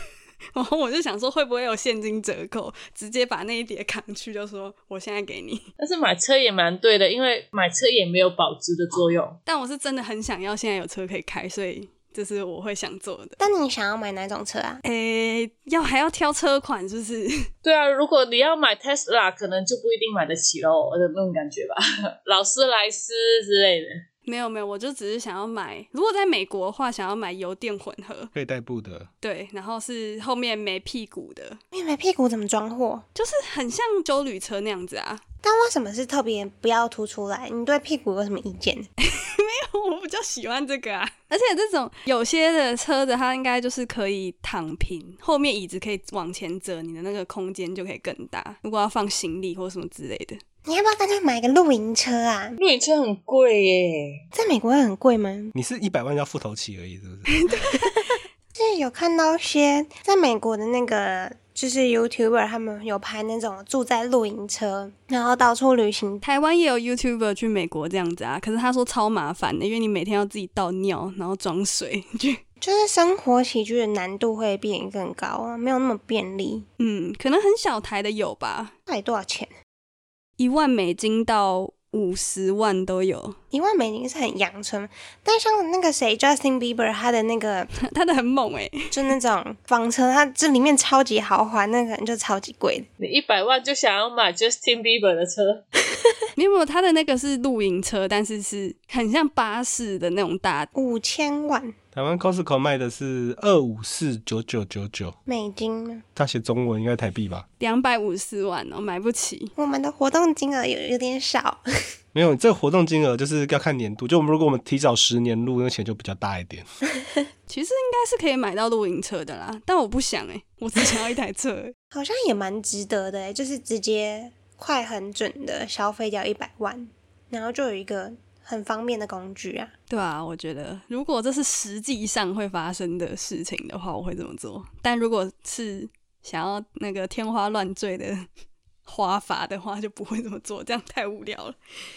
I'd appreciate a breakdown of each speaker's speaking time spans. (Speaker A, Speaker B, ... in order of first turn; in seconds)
Speaker A: 0.5-5.6, 9.4-13.4, 14.8-17.5, 24.2-28.3, 29.2-31.6, 33.1-35.2, 39.4-50.4, 57.3-57.8, 66.2-72.4, 76.8-78.7, 80.4-83.3, 87.9-88.8, 96.3-100.7, 107.6-109.5, 117.5-121.7, 129.9-138.3, 138.8-141.6
Speaker B: 5.8-9.4, 17.6-24.0, 52.6-54.2, 93.0-95.7
Speaker C: 13.4-14.8, 31.7-33.0, 35.4-38.9, 50.6-52.6, 54.3-55.5, 57.6-66.2, 72.6-76.6, 78.9-79.5, 83.5-87.7, 88.9-92.9, 100.7-101.7, 105.3-106.0, 109.6-111.6, 121.9-129.7
Speaker D: 28.3-29.1, 55.5-57.3, 101.9-105.2, 106.2-107.4, 112.1-116.7